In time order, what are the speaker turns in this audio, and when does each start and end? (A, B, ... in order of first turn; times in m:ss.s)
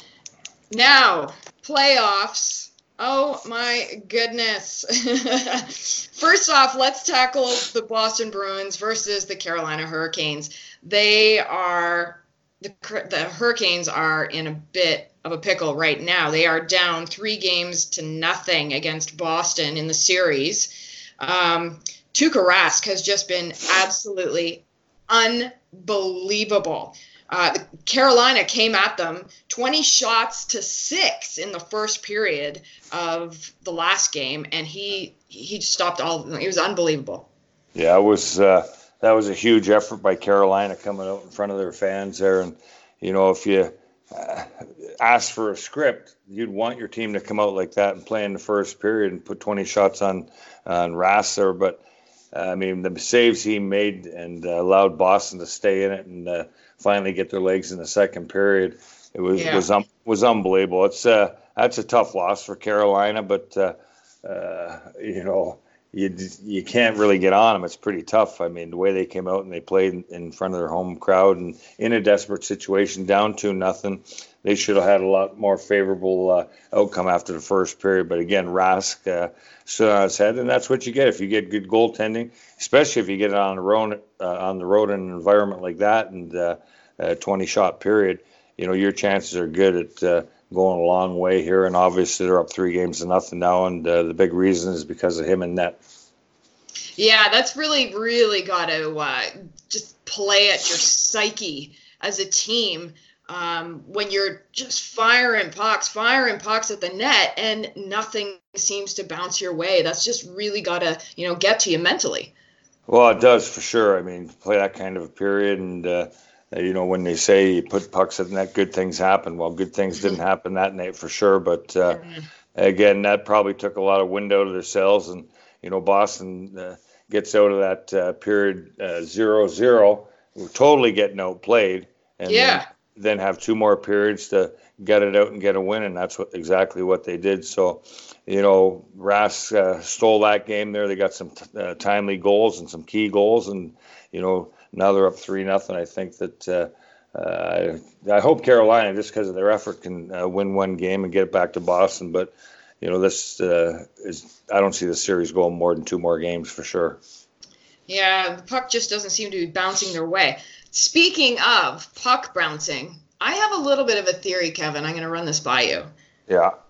0:00.7-0:37.3 A
0:37.7-0:51.8 B
0:52.3-1:35.8 B
0:59.3-0:59.7 A
1:37.0-1:52.3 A
1:52.9-2:02.0 B
2:01.9-2:02.2 A
2:02.6-2:37.0 B
2:12.2-2:12.6 A
2:37.9-2:45.9 A
2:46.3-2:46.5 B